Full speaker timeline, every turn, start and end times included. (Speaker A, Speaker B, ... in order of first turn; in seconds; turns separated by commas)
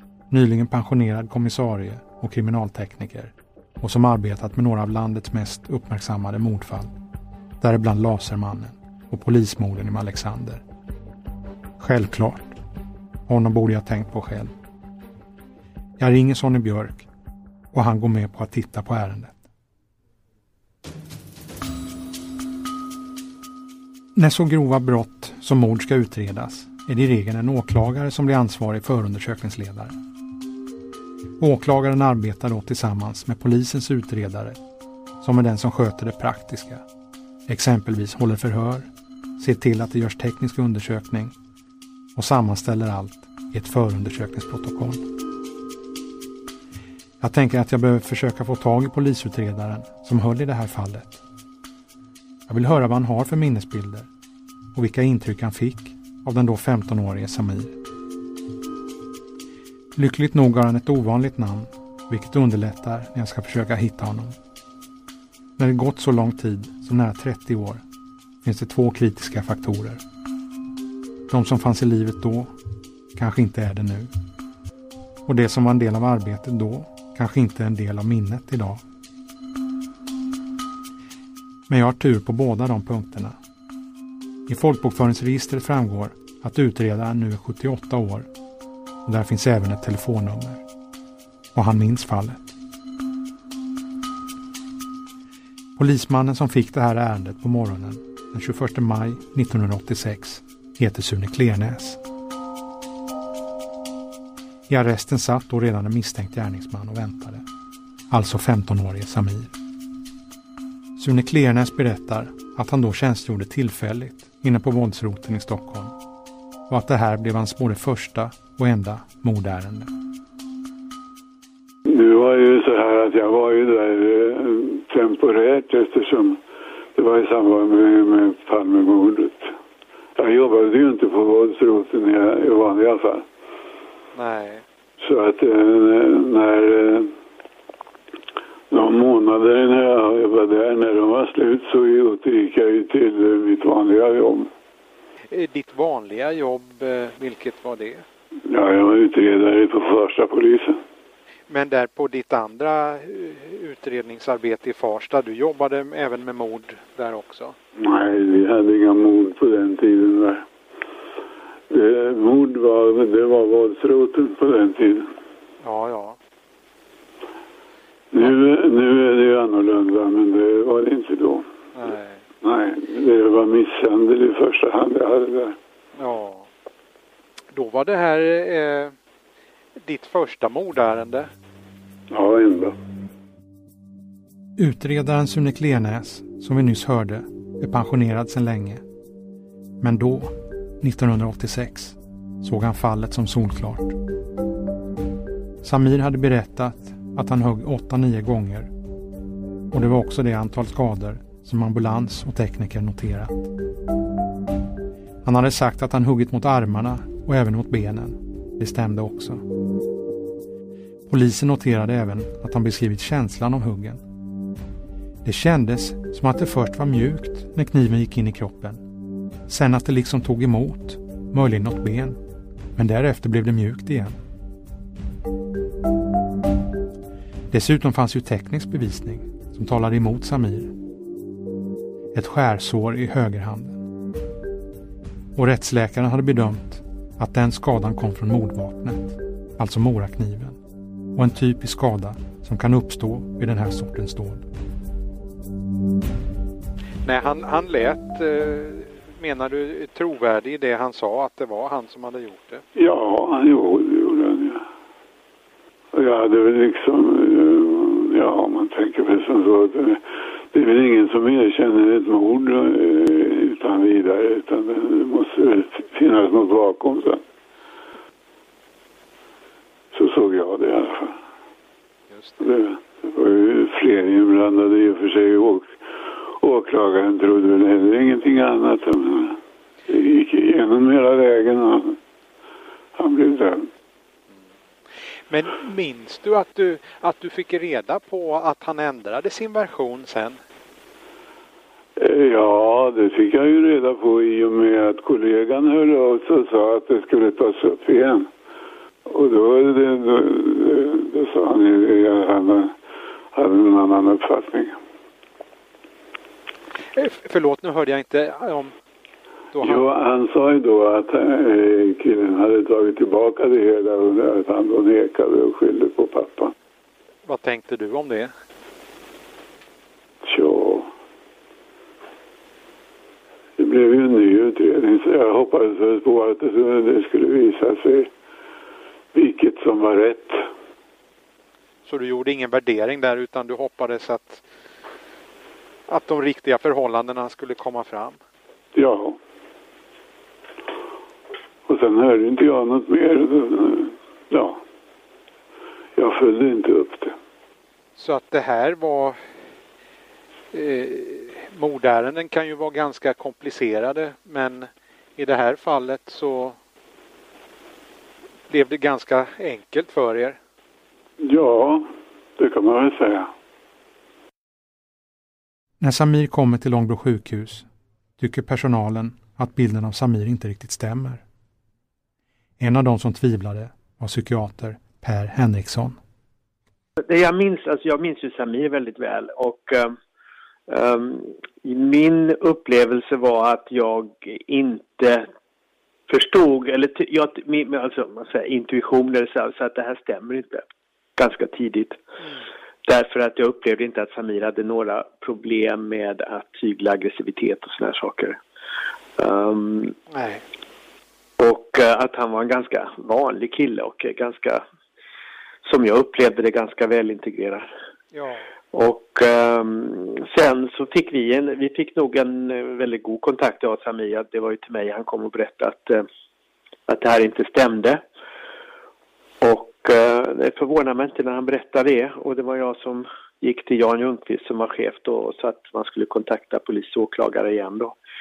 Speaker A: 0.3-6.9, Speaker A: 7.6-10.6, Speaker A: 11.8-12.6, Speaker A: 13.3-14.5, Speaker A: 16.0-17.1, Speaker A: 17.7-19.4, Speaker A: 24.1-29.9, Speaker A: 31.4-34.6, Speaker A: 35.2-36.8, Speaker A: 37.5-41.4, Speaker A: 42.1-45.0, Speaker A: 47.2-51.2, Speaker A: 52.5-54.1, Speaker A: 54.8-57.8, Speaker A: 60.0-64.4, Speaker A: 65.6-67.8, Speaker A: 68.4-70.0, Speaker A: 71.3-72.5, Speaker A: 73.2-74.1, Speaker A: 75.3-78.8, Speaker A: 81.7-83.4, Speaker A: 84.5-88.3, Speaker A: 89.0-90.6, Speaker A: 91.5-92.5, Speaker A: 95.8-102.0, Speaker A: 104.7-107.4, Speaker A: 108.1-109.5, Speaker A: 111.0-115.9, Speaker A: 116.7-119.9, Speaker B: 121.9-126.4, Speaker B: 127.0-129.5, Speaker B: 130.2-133.3, Speaker C: 134.2-134.6, Speaker B: 135.0-137.1, Speaker B: 138.7-144.5, Speaker C: 145.3-148.0, Speaker B: 148.5-150.8, Speaker C: 151.5-157.5, Speaker B: 157.8-160.4, Speaker B: 161.7-165.1, Speaker C: 165.6-166.2, Speaker B: 168.1-171.5, Speaker C: 171.8-172.2, Speaker B: 172.4-175.6, Speaker C: 176.0-176.4, Speaker C: 177.6-178.9, Speaker C: 179.9-181.3, Speaker B: 182.1-182.8, Speaker A: 184.6-188.8, Speaker A: 189.8-194.0, Speaker A: 195.6-198.7, Speaker A: 199.7-203.5, Speaker A: 205.2-209.4, Speaker A: 211.1-214.0, Speaker A: 215.2-218.8, Speaker A: 219.5-222.2, Speaker A: 222.8-224.2, Speaker A: 227.5-230.7, Speaker A: 232.1-233.8, Speaker A: 235.4-240.6, Speaker A: 241.2-244.5, Speaker C: 247.1-252.6, Speaker B: 252.8-254.6, Speaker B: 255.9-260.0, Speaker B: 260.5-267.2, Speaker B: 269.9-271.2, Speaker B: 272.4-275.7, Speaker B: 276.4-282.0, Speaker B: 283.0-283.7, Speaker C: 285.3-290.4, Speaker B: 292.0-298.3, Speaker B: 299.1-302.7, Speaker B: 303.3-304.8, Speaker C: 307.0-308.7, Speaker B: 309.6-316.5, Speaker C: 317.3-318.3, Speaker B: 320.2-320.9, Speaker B: 323.6-328.1, Speaker B: 329.1-330.4, Speaker C: 331.9-334.4, Speaker C: 335.9-338.2, Speaker B: 338.8-339.2, Speaker B: 341.7-344.6, Speaker B: 346.0-347.1, Speaker C: 348.0-349.1, Speaker C: 350.5-356.6, Speaker C: 358.5-360.4, Speaker B: 361.2-361.8, Speaker B: 362.4-363.3, Speaker A: 365.8-367.7, Speaker A: 368.2-371.2, Speaker A: 372.6-376.0, Speaker D: 377.1-379.9, Speaker D: 380.7-385.3, Speaker D: 386.1-390.6, Speaker D: 391.2-392.0, Speaker D: 392.9-398.4, Speaker D: 399.2-399.9, Speaker C: 400.1-400.4, Speaker D: 401.4-404.6, Speaker D: 405.6-407.7, Speaker C: 408.1-408.4, Speaker D: 408.7-416.0, Speaker D: 416.9-418.0, Speaker D: 419.4-428.0